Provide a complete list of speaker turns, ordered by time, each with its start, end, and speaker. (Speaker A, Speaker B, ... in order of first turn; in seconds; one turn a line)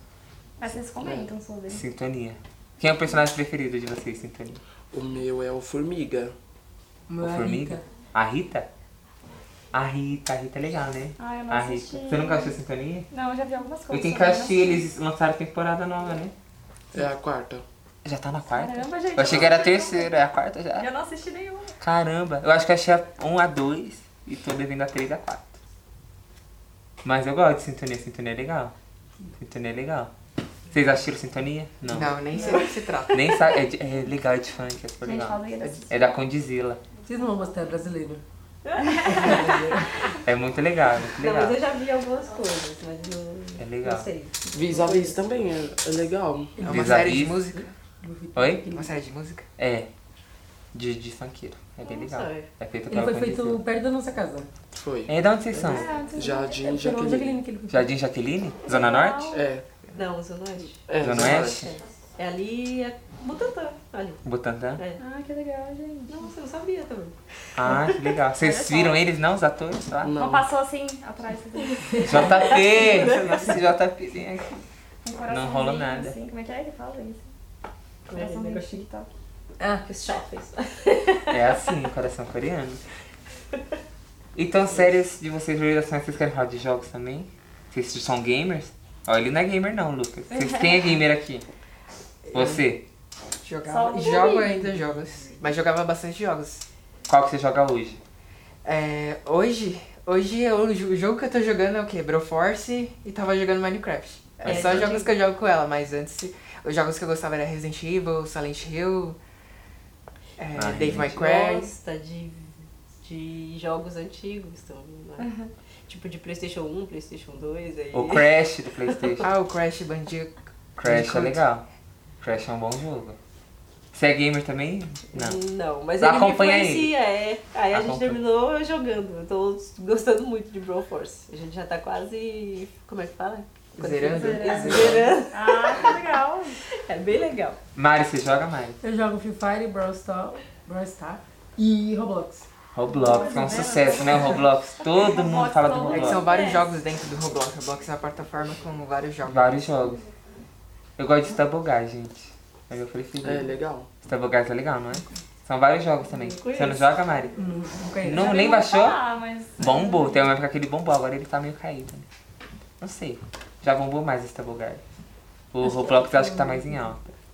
Speaker A: 0.6-1.8
Speaker B: 0.8-1.3
Speaker C: 1.7-4.6
Speaker B: 4.9-6.3
Speaker D: 7.1-7.8
Speaker C: 7.2-8.7
Speaker C: 9.7-13.1
Speaker A: 11.2-12.6
Speaker A: 13.1-14.8
Speaker C: 13.9-16.3
Speaker B: 16.9-17.6
Speaker C: 18.0-20.9
Speaker A: 18.5-21.8
Speaker B: 19.2-19.6
Speaker C: 21.8-25.6
Speaker C: 27.0-28.7
Speaker C: 29.3-30.1
Speaker C: 30.7-32.2
Speaker E: 31.9-33.3
Speaker A: 32.3-32.7
Speaker C: 33.1-36.8
Speaker A: 35.0-36.1
Speaker D: 37.1-38.2
Speaker F: 38.8-39.5
Speaker D: 39.0-39.9
Speaker C: 40.2-41.6
Speaker F: 41.2-45.2
Speaker C: 43.6-44.1
Speaker B: 44.5-46.7
Speaker D: 46.6-48.9
Speaker E: 46.6-47.7
Speaker C: 46.7-47.4
Speaker C: 48.4-48.7
Speaker E: 48.7-49.5
Speaker C: 49.6-49.9
Speaker C: 50.7-53.6
Speaker F: 51.8-52.5
Speaker D: 52.9-54.5
Speaker B: 54.7-57.5
Speaker C: 55.1-55.9
Speaker A: 55.6-56.7
Speaker D: 56.7-57.8
Speaker C: 57.7-59.3
Speaker A: 58.7-59.5
Speaker B: 59.3-59.6
Speaker F: 60.0-64.2
Speaker B: 60.9-61.7
Speaker C: 61.0-61.7
Speaker C: 64.2-64.8
Speaker A: 65.0-66.3
Speaker F: 66.1-68.0
Speaker C: 67.6-70.2
Speaker A: 68.4-69.1
Speaker B: 70.0-70.5
Speaker A: 70.2-72.5
Speaker C: 72.0-74.6
Speaker F: 72.4-73.5
Speaker A: 75.0-77.3
Speaker C: 75.3-76.2
Speaker F: 78.1-78.9
Speaker A: 78.1-79.1
Speaker F: 79.8-81.4
Speaker C: 81.3-82.8
Speaker C: 84.3-91.5
Speaker A: 90.3-91.0
Speaker E: 92.3-92.7
Speaker C: 92.3-92.8
Speaker E: 93.4-96.6
Speaker A: 93.7-94.6
Speaker C: 97.1-98.0
Speaker E: 98.6-109.2
Speaker C: 104.4-105.0
Speaker F: 104.4-105.1
Speaker E: 110.4-111.7
Speaker C: 110.5-111.1
Speaker F: 110.9-115.3
Speaker A: 115.2-115.5
Speaker F: 115.9-118.3
Speaker C: 117.9-119.3
Speaker F: 118.9-119.3
Speaker E: 119.2-121.4
Speaker C: 120.8-121.7
Speaker C: 122.2-123.2
Speaker C: 123.9-125.4
Speaker F: 125.1-135.9
Speaker C: 126.0-127.0
Speaker C: 127.7-128.2
Speaker E: 133.8-135.1
Speaker A: 134.1-136.6
Speaker F: 136.8-137.6
Speaker C: 137.8-138.8
Speaker D: 138.8-142.4
Speaker C: 142.7-146.3
Speaker A: 142.9-146.7
Speaker E: 145.8-149.6
Speaker C: 149.2-150.0
Speaker C: 151.0-153.5
Speaker B: 153.2-153.9
Speaker C: 154.1-157.3
Speaker F: 156.1-156.9
Speaker D: 157.4-158.4
Speaker C: 158.0-159.0
Speaker A: 158.1-160.3
Speaker C: 159.6-162.1
Speaker C: 162.8-164.8
Speaker C: 165.5-167.1
Speaker D: 165.6-166.9